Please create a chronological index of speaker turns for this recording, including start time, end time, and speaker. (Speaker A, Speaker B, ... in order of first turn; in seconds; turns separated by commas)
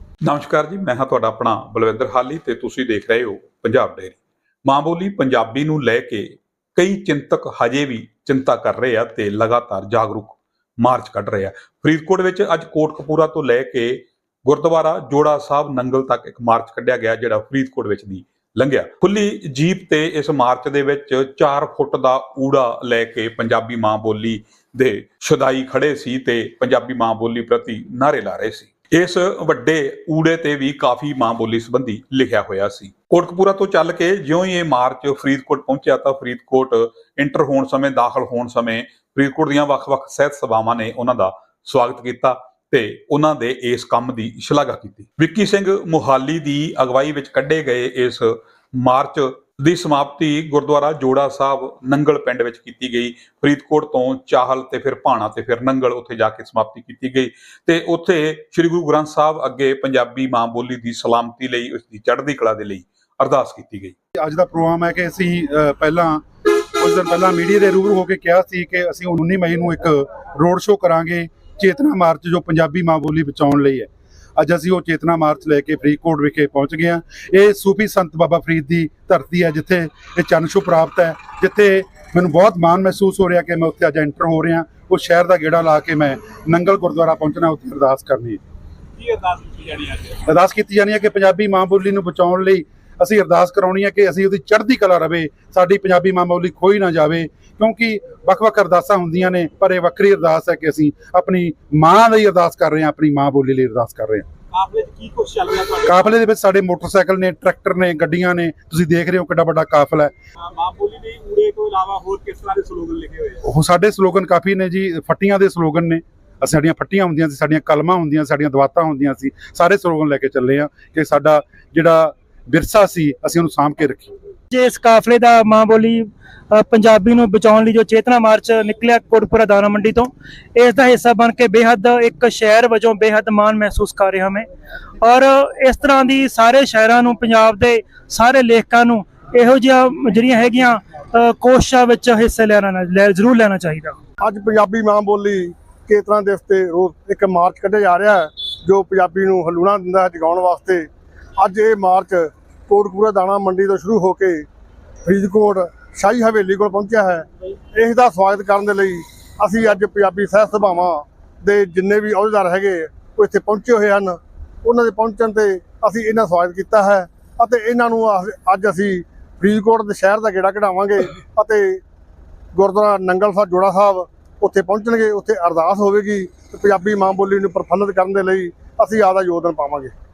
Speaker A: 0.2-64.0, Speaker B: 64.2-66.2, Speaker B: 66.8-88.4, Speaker C: 89.0-90.2, Speaker B: 90.3-104.3, Speaker C: 104.5-106.2, Speaker B: 105.9-110.1, Speaker C: 110.4-113.4, Speaker B: 113.4-124.1, Speaker D: 124.5-134.5, Speaker D: 135.0-144.0, Speaker E: 144.2-154.4, Speaker E: 155.0-171.8, Speaker E: 172.5-179.9